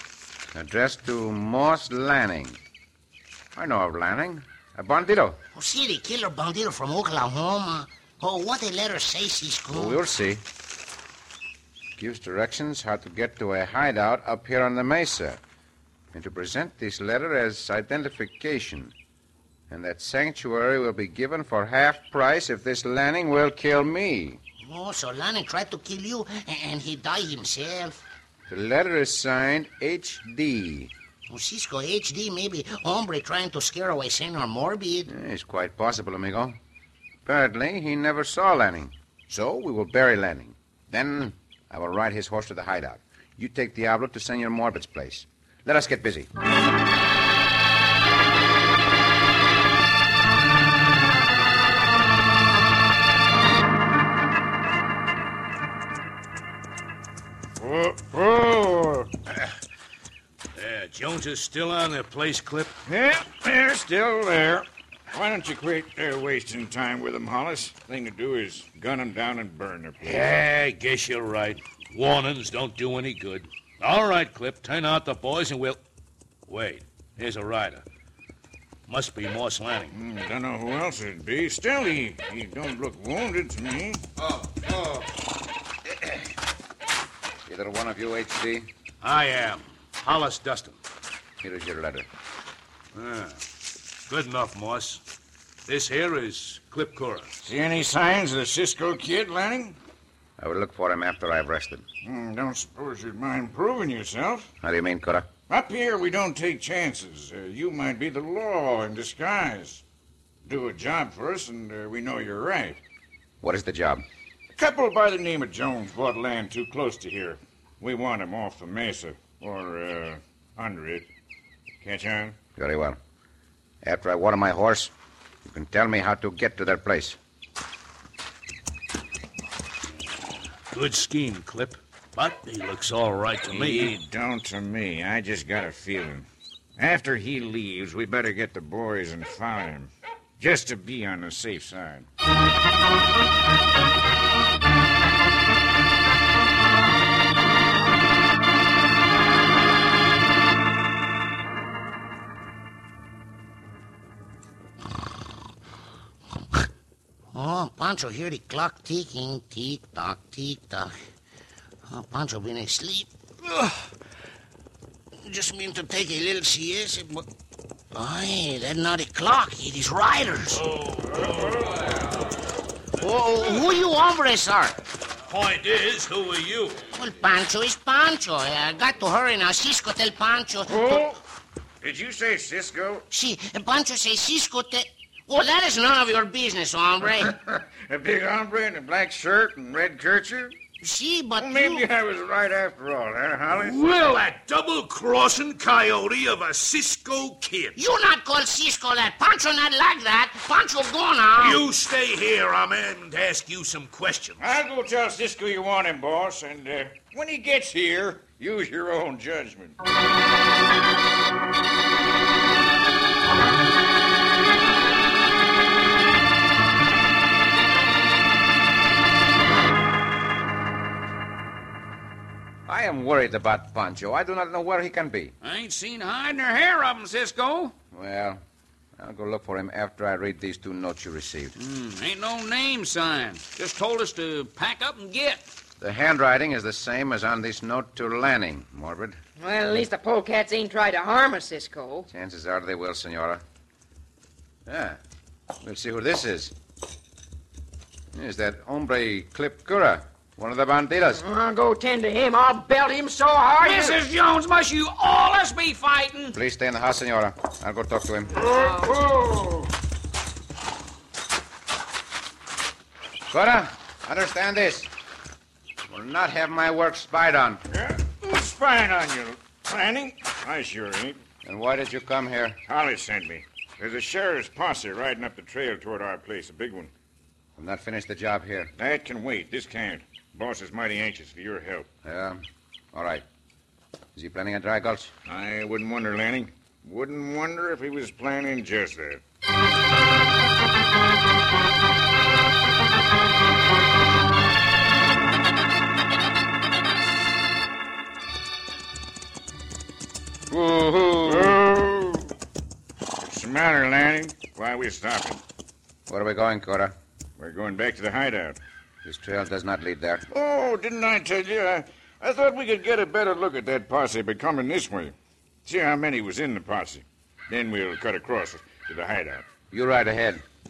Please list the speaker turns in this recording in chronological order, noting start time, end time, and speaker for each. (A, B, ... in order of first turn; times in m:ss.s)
0:00.5-0:02.6 A
0:03.5-0:05.4 A
0:05.5-0:10.0 B
0:09.7-0:10.4 A
0:12.0-0:15.4 A
0:16.1-0:18.9 A
0:19.7-0:24.4 A
0:24.6-0:28.0 B
0:28.5-0:30.9 A
0:31.3-0:35.1 B
0:35.1-0:36.6 A
0:37.2-0:46.3 A
0:57.6-0:59.1 C
1:00.6-1:02.7 D
1:02.9-1:10.3 C
1:10.0-1:15.8 D
1:16.5-1:17.8 D
1:18.9-1:19.9 D
1:19.9-1:24.0 C
1:24.2-1:25.1 A
1:27.4-1:28.7 A
1:29.0-1:30.8 D
1:31.4-1:32.1 A
1:32.9-1:33.4 D
1:34.1-1:35.0 D
1:35.7-1:37.3 D
1:37.4-1:39.8 C
1:40.4-1:41.8 A
1:42.0-1:44.5 C
1:44.6-1:45.3 A
1:45.5-1:49.8 C
1:50.4-1:52.8 C
1:53.4-1:54.0 A
1:54.5-2:01.1 C
2:01.8-2:02.4 C
2:02.6-2:03.0 A
2:03.8-2:04.9 A
2:05.4-2:07.2 A
2:10.7-2:13.9 D
2:13.5-2:16.2 C
2:16.8-2:22.0 C
2:37.3-2:40.9 B
2:41.9-2:43.1 B
2:45.2-2:47.2 B
2:47.9-2:50.6 B
2:50.5-2:51.9 D
2:53.0-2:54.8 B
2:55.3-2:56.8 D
2:56.9-3:01.1 B
3:00.7-3:01.2 C
3:01.8-3:03.0 C
3:03.1-3:07.4 B
3:07.3-3:10.6 C
3:10.8-3:11.9 B
3:11.4-3:13.9 C
3:13.5-3:17.8 D
3:17.8-3:21.6 B
3:21.4-3:24.4 D
3:24.4-3:29.8 C
3:42.7-3:45.3 A
3:45.4-3:47.8 E
3:47.9-3:48.4 A
3:49.0-3:51.6 A
3:51.6-3:55.4 E
3:55.8-3:59.2 A
3:59.4-4:02.1 F
4:02.1-4:03.4 A
4:04.6-4:05.0 A
4:05.6-4:06.5 A
4:08.1-4:11.2 A
4:11.1-4:14.0 F
4:13.6-4:16.4 E
4:16.3-4:18.4 A
4:18.4-4:19.7 C
4:18.4-4:19.0 F
4:23.3-4:24.9 A
4:25.8-4:27.6 A
4:27.7-4:31.2 C
4:31.4-4:32.6 A
4:32.7-4:36.9 C
4:37.6-4:38.7 A
4:38.8-4:41.9 C
4:42.0-4:43.2 A
4:44.1-4:45.1 A
4:45.2-4:49.2 C
5:00.5-5:01.6 A
5:01.2-5:02.3 C
5:03.2-5:05.4 C
5:06.1-5:06.9 A
5:07.4-5:08.6 C
5:09.0-5:10.2 A
5:10.3-5:19.4 C
5:19.7-5:20.4 A